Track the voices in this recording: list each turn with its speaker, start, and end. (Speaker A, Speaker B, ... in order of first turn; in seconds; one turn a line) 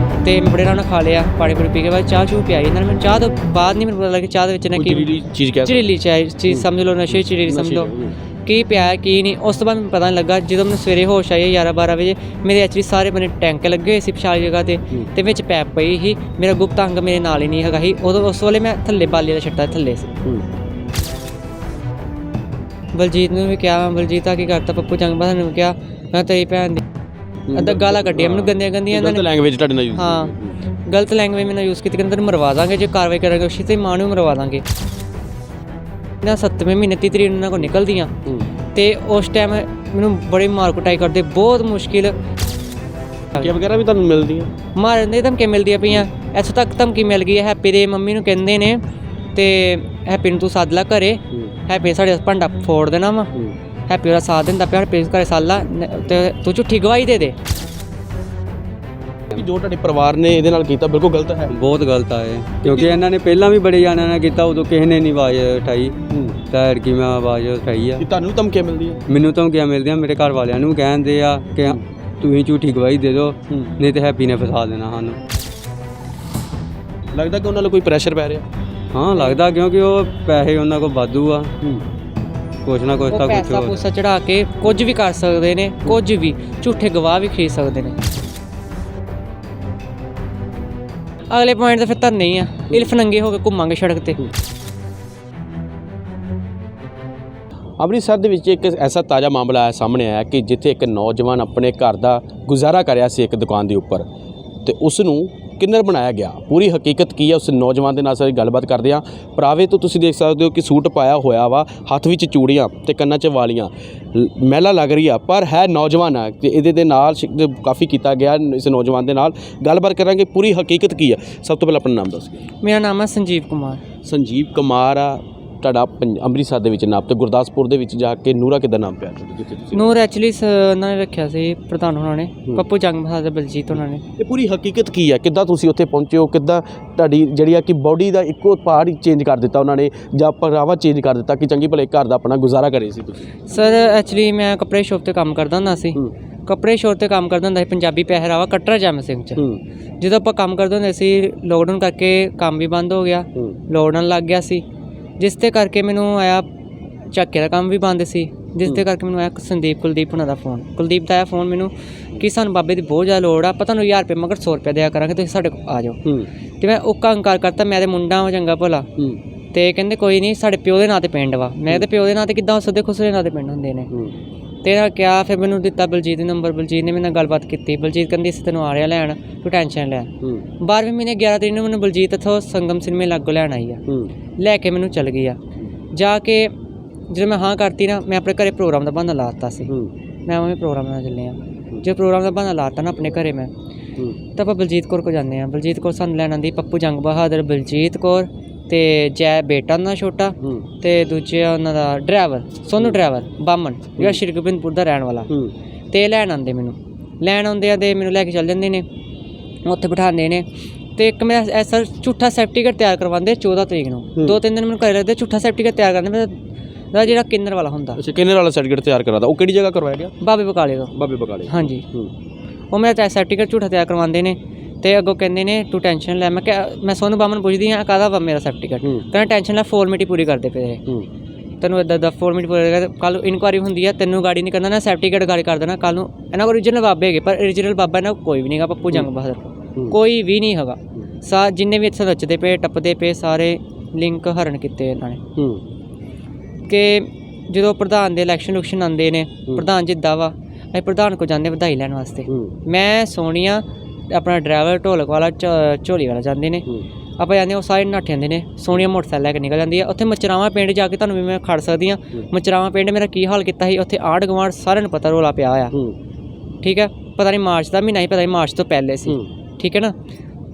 Speaker A: 0.2-5.1
Speaker B: 4.8-5.9
Speaker A: 5.7-7.9
Speaker B: 6.5-8.2
Speaker A: 8.4-20.1
Speaker A: 22.9-26.8
Speaker B: 27.5-30.6
Speaker A: 27.5-29.3
Speaker A: 30.0-30.3
Speaker A: 30.9-34.6
Speaker A: 36.2-38.1
Speaker A: 38.7-42.1
Speaker B: 43.4-44.5
Speaker A: 44.8-48.8
Speaker A: 49.3-53.3
Speaker A: 53.9-57.4
Speaker B: 59.3-61.5
Speaker C: 61.5-66.0
Speaker B: 62.6-62.9
Speaker B: 66.1-66.4
Speaker C: 66.5-68.0
Speaker B: 68.0-69.0
Speaker C: 69.1-75.2
Speaker B: 77.1-78.5
Speaker C: 78.9-81.5
Speaker C: 82.7-83.8
Speaker A: 83.1-88.0
Speaker A: 91.3-94.2
Speaker B: 97.8-104.1
Speaker B: 104.7-122.5
Speaker A: 122.6-123.8
Speaker B: 124.0-130.0
Speaker A: 129.7-134.0
Speaker B: 134.2-143.3
Speaker A: 143.5-149.4
Speaker B: 149.4-149.6
Speaker A: 150.0-154.6
Speaker A: 155.2-156.5
Speaker A: 157.1-166.0
Speaker A: 166.6-168.9
Speaker A: 169.5-173.9
Speaker A: 174.6-183.8
Speaker A: 184.4-185.4
Speaker A: 185.9-186.5
Speaker A: 187.1-189.7
Speaker A: 190.3-193.5
Speaker A: 194.3-205.3
Speaker A: 205.9-208.9
Speaker A: 209.7-216.4
Speaker B: 214.2-214.4
Speaker A: 216.9-218.0
Speaker B: 218.0-220.2
Speaker A: 220.2-220.9
Speaker B: 220.9-222.1
Speaker A: 221.5-221.8
Speaker A: 222.7-230.8
Speaker A: 231.6-245.2
Speaker B: 245.4-245.6
Speaker A: 246.7-256.7
Speaker B: 252.3-252.6
Speaker A: 257.2-265.7
Speaker A: 266.6-270.0